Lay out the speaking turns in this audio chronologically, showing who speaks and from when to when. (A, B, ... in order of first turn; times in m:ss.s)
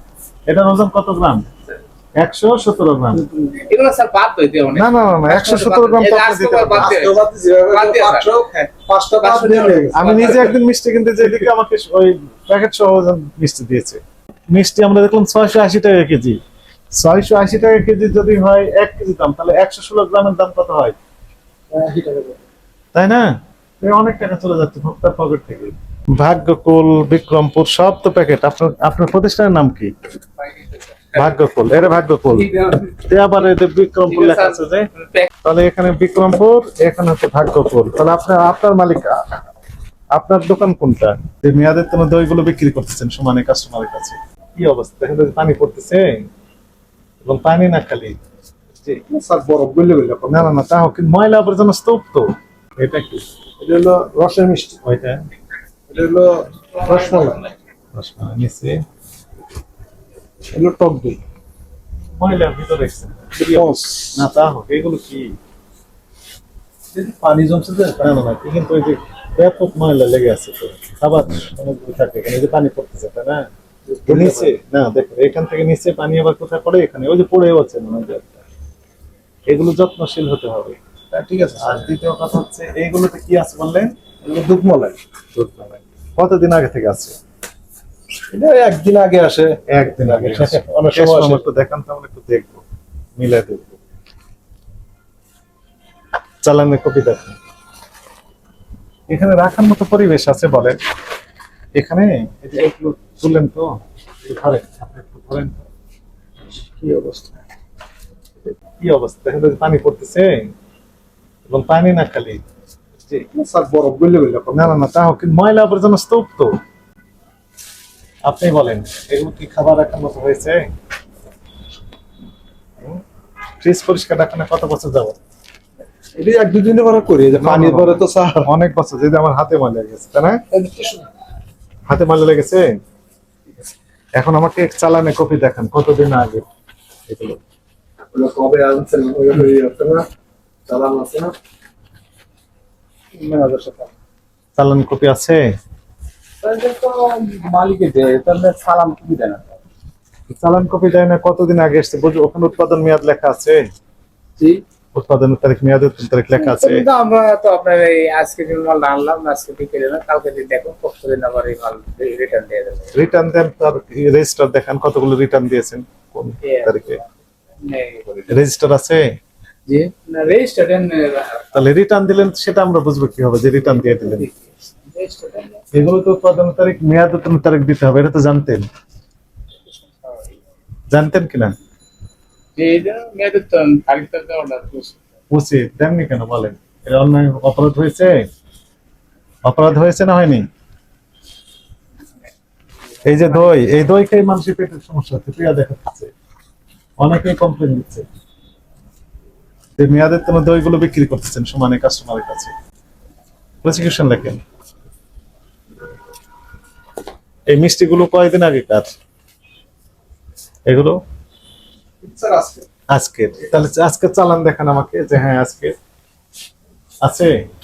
0:00.5-0:01.4 A
0:02.2-0:03.2 A
0:03.6-0:08.3 B
0:04.7-0:07.0 A
0:06.8-0:10.5 C
0:09.2-0:10.6 B
0:09.9-0:16.4 A
0:16.9-0:21.0 A
0:21.7-0:22.4 C
0:22.9-0:23.3 A
0:23.8-0:29.9 A
0:30.4-0:31.4 B
0:31.1-0:32.5 A
0:32.3-0:33.0 B
0:33.1-0:34.9 A
0:34.1-0:35.3 B
0:35.4-0:39.1 A
0:40.1-0:46.2 A
0:47.2-0:48.2 A
0:49.1-0:50.5 C
0:50.3-0:53.2 A
0:53.6-0:54.8 C
0:54.8-0:55.2 A
0:55.9-0:57.4 C
0:56.7-0:57.6 B
0:57.9-0:58.8 A
1:00.5-1:01.2 C
1:02.2-1:05.3 A
1:03.3-1:04.2 C
1:06.9-1:08.0 C
1:08.0-1:13.4 A
1:13.9-1:14.6 C
1:14.0-1:18.4 A
1:19.5-1:23.9 A
1:21.3-1:21.8 C
1:24.2-1:25.0 C
1:25.4-1:27.2 A
1:28.3-1:31.4 C
1:29.7-1:32.6 A
1:33.2-1:33.8 A
1:36.4-1:37.4 A
1:39.1-1:40.8 A
1:41.7-1:43.7 A
1:44.2-1:45.6 A
1:46.8-1:47.3 C
1:48.8-1:50.5 A
1:51.5-1:52.4 A
1:53.3-1:54.8 C
1:54.5-1:56.5 A
1:58.2-2:00.6 A
2:03.6-2:05.2 A
2:06.2-2:08.5 C
2:07.3-2:10.4 A
2:10.6-2:11.0 C
2:11.9-2:12.6 A
2:14.2-2:16.4 A
2:17.1-2:17.4 A
2:18.1-2:20.0 C
2:20.7-2:21.3 C
2:23.3-2:23.7 B
2:24.6-2:25.4 A
2:26.4-2:29.5 B
2:30.3-2:33.6 A
2:34.9-2:36.8 A
2:36.4-2:43.0 B
2:42.9-2:47.0 A
2:46.4-2:47.0 B
2:47.6-2:48.3 B
2:48.3-2:49.0 A
2:49.7-2:51.6 B
2:51.5-2:54.3 A
2:53.6-2:55.7 B
2:55.7-2:58.6 A
2:59.7-3:00.4 B
3:00.9-3:01.5 A
3:02.6-3:05.0 B
3:05.3-3:08.2 A
3:09.4-3:10.4 A
3:13.0-3:16.1 A
3:13.1-3:13.8 B
3:17.0-3:18.0 A
3:19.8-3:22.5 A
3:23.6-3:24.4 A
3:27.5-3:28.9 A
3:30.7-3:31.0 A
3:32.0-3:32.6 C
3:32.9-3:35.7 A
3:37.0-3:37.3 A